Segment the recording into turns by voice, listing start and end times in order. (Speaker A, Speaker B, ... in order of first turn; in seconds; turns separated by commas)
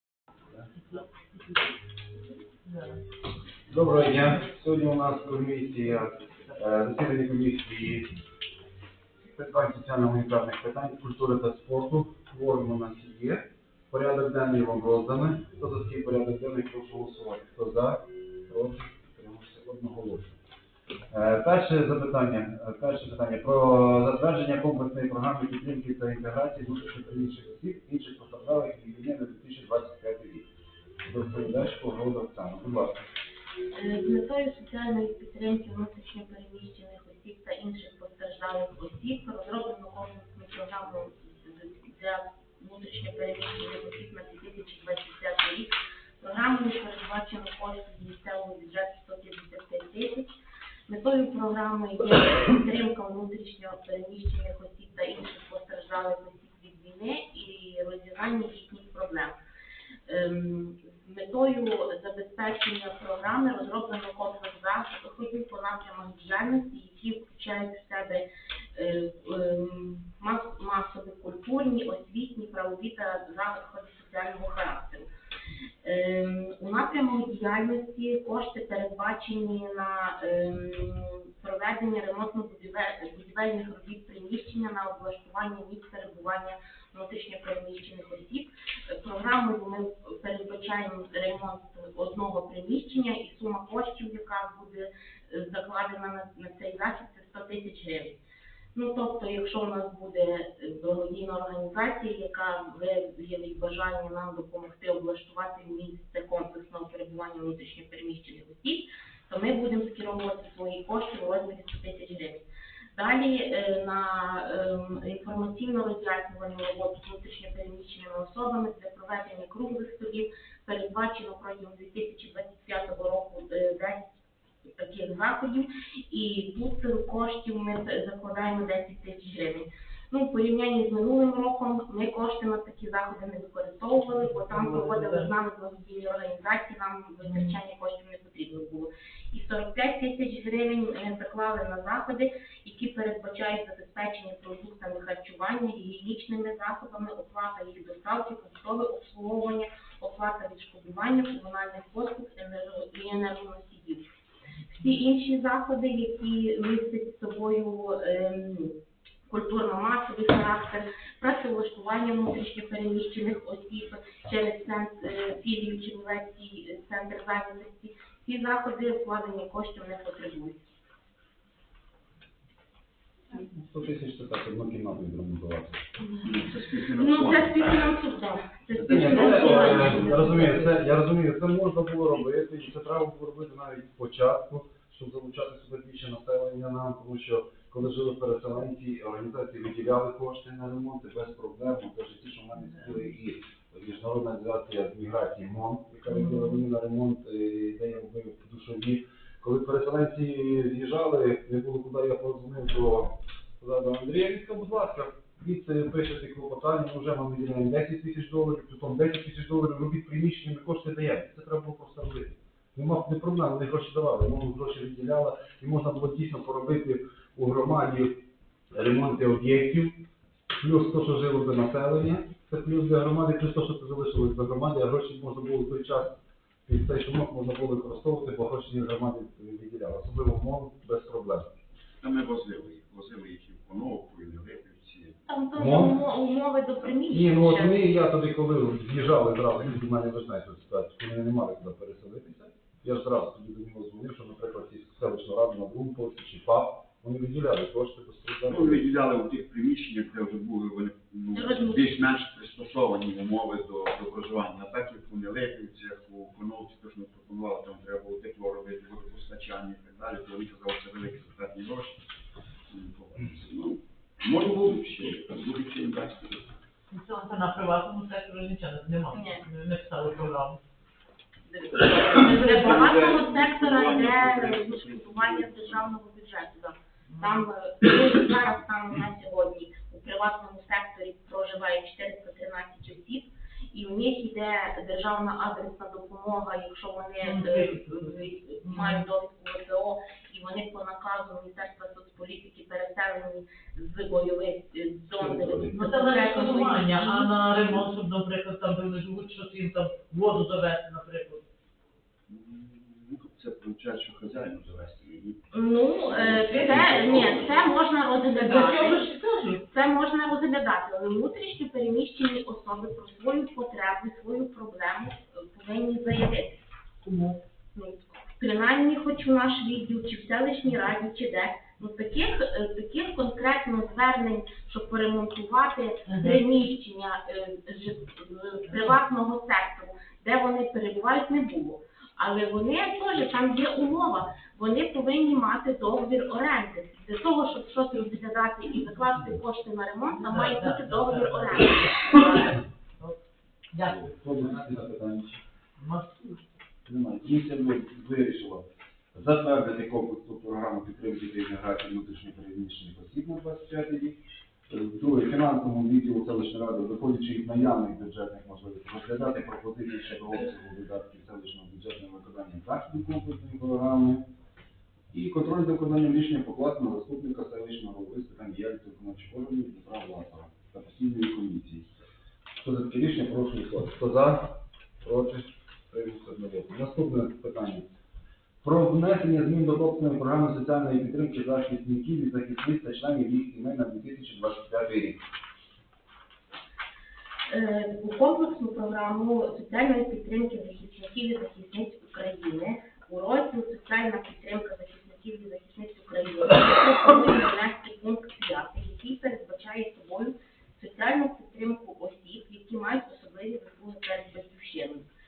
Speaker A: 0.8-1.4, Speaker A: 2.6-3.0, Speaker B: 3.7-8.1, Speaker B: 9.2-20.4, Speaker B: 21.1-30.5, Speaker B: 31.0-33.0, Speaker C: 33.7-50.3, Speaker C: 50.9-59.4, Speaker C: 60.1-75.1, Speaker C: 75.8-98.2, Speaker C: 98.8-124.1, Speaker C: 124.8-154.1, Speaker A: 134.3-135.3, Speaker A: 137.2-137.6, Speaker C: 154.7-170.7, Speaker B: 173.3-175.9, Speaker D: 176.2-177.9, Speaker C: 177.0-180.7, Speaker D: 178.7-180.2, Speaker B: 178.8-220.0, Speaker B: 220.5-231.5, Speaker D: 232.0-235.2, Speaker C: 235.3-237.9, Speaker B: 235.6-236.0, Speaker B: 237.1-248.8, Speaker D: 248.5-262.0, Speaker C: 251.3-252.1, Speaker D: 262.7-266.5, Speaker A: 266.9-270.6, Speaker C: 269.1-269.4, Speaker C: 271.5-297.3, Speaker D: 272.1-275.9, Speaker A: 272.2-272.6, Speaker A: 277.1-277.4, Speaker A: 287.2-289.0, Speaker B: 295.1-295.8, Speaker A: 295.7-301.4, Speaker D: 302.3-305.4, Speaker C: 305.5-309.0, Speaker D: 306.1-307.7, Speaker A: 308.3-309.6, Speaker C: 309.6-316.6, Speaker A: 317.0-317.4, Speaker C: 317.8-342.6, Speaker A: 326.1-326.4, Speaker A: 328.7-328.9, Speaker A: 340.2-343.2, Speaker A: 343.7-344.8, Speaker B: 343.8-345.4, Speaker A: 345.8-346.4, Speaker B: 346.9-364.2, Speaker B: 365.1-371.9, Speaker B: 372.6-377.9, Speaker B: 378.6-385.2, Speaker C: 387.5-405.1